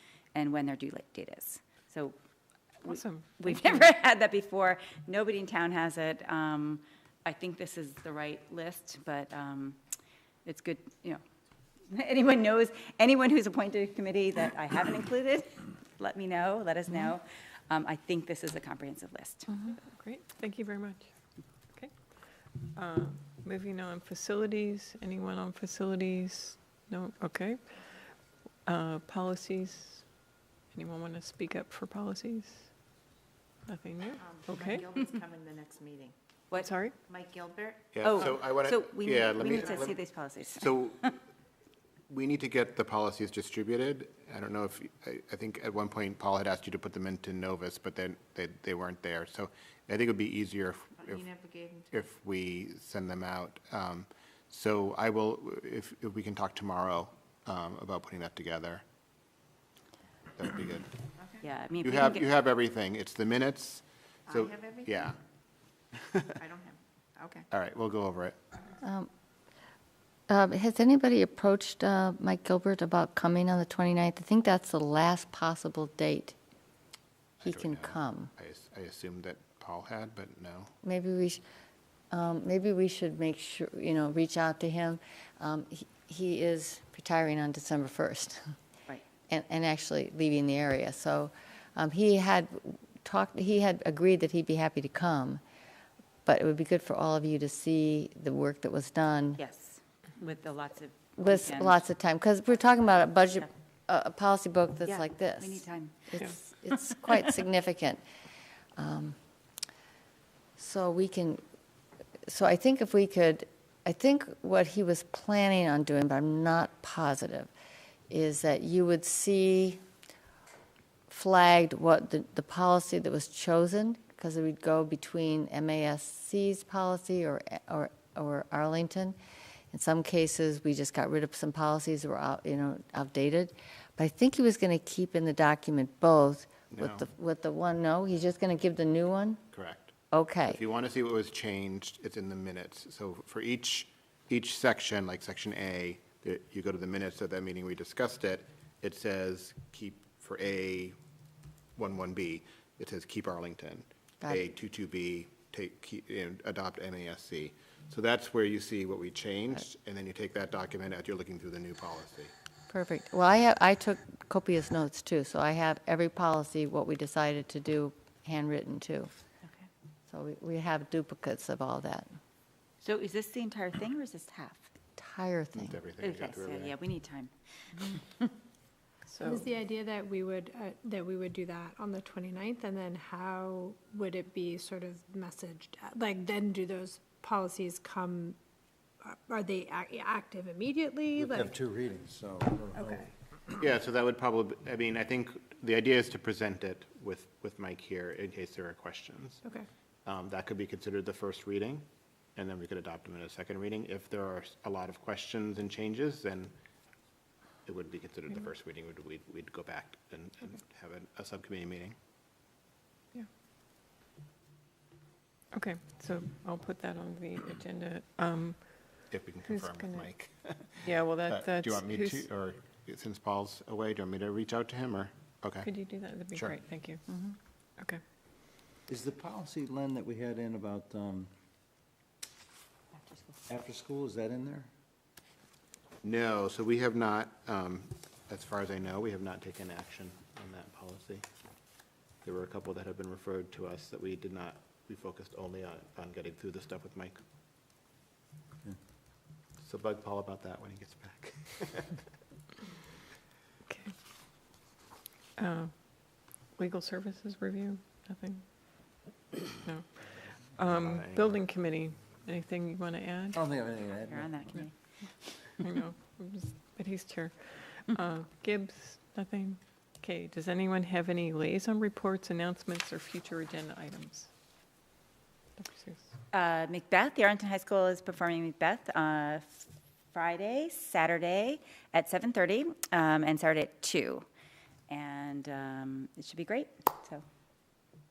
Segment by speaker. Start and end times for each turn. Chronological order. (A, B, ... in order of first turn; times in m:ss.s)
0:00.3-0:02.1 A
0:02.8-0:09.8 A
0:02.8-0:03.9 B
0:10.4-0:11.2 A
0:11.9-0:19.5 A
0:19.8-0:32.9 B
0:33.6-0:34.9 B
0:34.2-0:36.1 C
0:36.6-0:36.9 B
0:37.1-0:37.8 C
0:37.9-0:41.1 D
0:38.0-0:41.1 A
0:42.1-0:51.4 D
0:51.1-0:51.9 C
0:51.9-0:58.8 D
1:00.4-1:00.9 D
1:01.4-1:02.3 A
1:01.8-1:05.2 D
1:04.3-1:04.9 C
1:06.1-1:06.4 D
1:06.4-1:07.4 C
1:07.5-1:08.4 D
1:08.8-1:09.1 E
1:10.3-1:16.4 E
1:17.4-1:20.7 D
1:17.4-1:18.3 E
1:20.8-1:21.4 E
1:22.1-1:28.4 E
1:29.3-1:35.4 E
1:36.2-1:39.4 E
1:39.4-1:41.8 A
1:41.2-1:48.0 E
1:44.9-1:46.0 A
1:48.8-1:49.1 E
1:50.6-1:51.4 E
1:52.3-1:57.5 E
1:58.1-1:59.8 E
2:01.1-2:09.2 E
2:09.7-2:19.4 E
2:16.7-2:17.0 D
2:19.5-2:19.9 D
2:20.1-2:20.6 E
2:20.5-2:31.0 D
2:31.8-2:42.3 D
2:42.7-2:49.1 E
2:50.1-2:52.1 E
2:52.8-2:54.6 A
2:55.0-2:55.8 E
2:55.6-2:56.8 D
2:56.0-2:57.3 A
2:59.1-2:59.4 B
2:59.2-3:08.4 F
3:09.0-3:11.6 F
3:11.1-3:13.1 G
3:13.6-3:19.4 D
3:20.0-3:26.5 D
3:27.6-3:32.0 D
3:35.5-3:40.1 B
3:39.1-3:45.7 D
3:40.8-3:42.3 B
3:45.6-3:47.0 B
3:46.3-3:46.6 D
3:47.1-3:47.3 A
3:48.9-3:51.3 G
3:53.5-3:54.7 G
3:56.0-4:01.2 D
4:02.2-4:07.2 D
4:09.6-4:12.0 D
4:13.6-4:13.9 B
4:15.4-4:23.4 B
4:20.6-4:21.4 D
4:23.3-4:24.5 G
4:24.1-4:25.3 A
4:25.6-4:34.3 B
4:35.6-4:36.1 B
4:36.3-4:44.2 A
4:44.9-4:47.2 A